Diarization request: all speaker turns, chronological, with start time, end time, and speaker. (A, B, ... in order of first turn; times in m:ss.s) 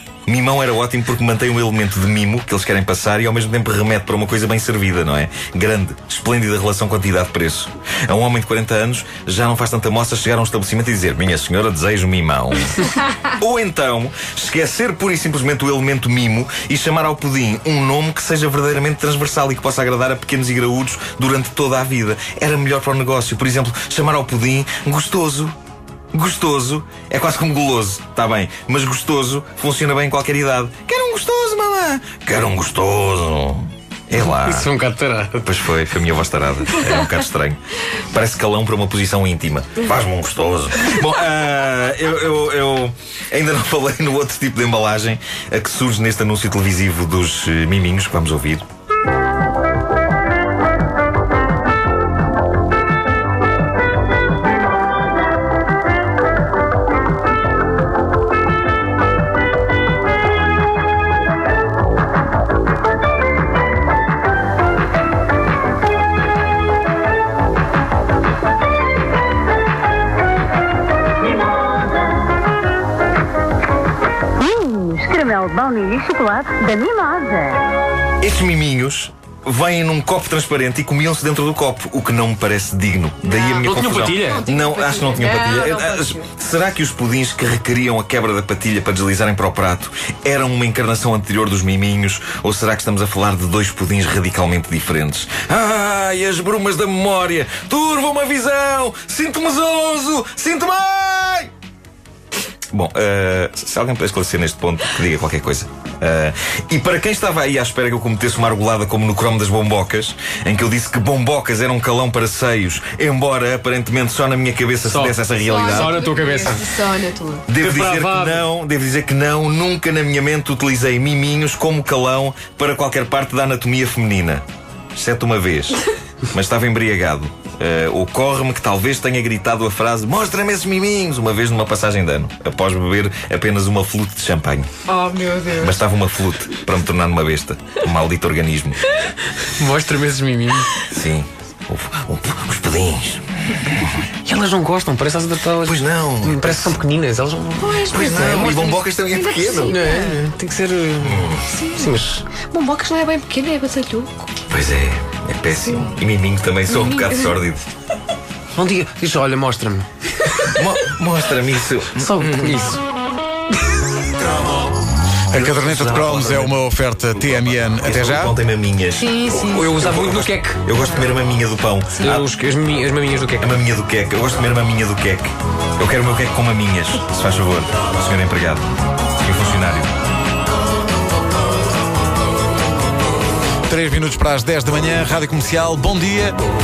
0:00.3-0:25.6 A
0:26.1-0:34.7 A
0:34.2-0:35.6 B
0:35.4-0:48.6 A
1:14.4-1:17.6 C
1:18.2-1:41.5 A
1:23.2-1:26.3 D
1:23.6-1:24.4 B
1:42.7-1:56.0 A
1:54.8-1:56.6 B
1:55.4-1:57.5 D
1:57.5-2:04.4 A
1:57.6-1:58.5 B
2:05.0-2:14.7 A
2:14.9-2:15.8 D
2:15.6-2:18.8 A
2:19.4-2:20.8 B
2:20.8-2:24.0 A
2:24.2-2:28.4 B
2:25.6-2:26.8 A
2:27.6-2:30.3 D
2:27.9-2:29.9 A
2:29.7-2:32.2 B
2:31.0-2:31.4 A
2:31.4-2:34.3 D
2:34.5-2:37.6 A
2:35.7-2:36.0 D
2:36.7-2:37.4 D
2:38.6-2:40.6 B
2:40.5-2:42.7 A
2:42.0-2:42.8 B
2:45.3-2:48.3 E
2:45.3-2:46.3 A
2:47.6-2:49.1 A
2:49.0-2:49.7 D
2:49.4-2:50.6 B
2:49.7-2:52.3 A
2:52.0-2:53.6 B
2:53.4-2:58.7 A
2:59.2-2:59.9 A
3:03.7-3:06.4 E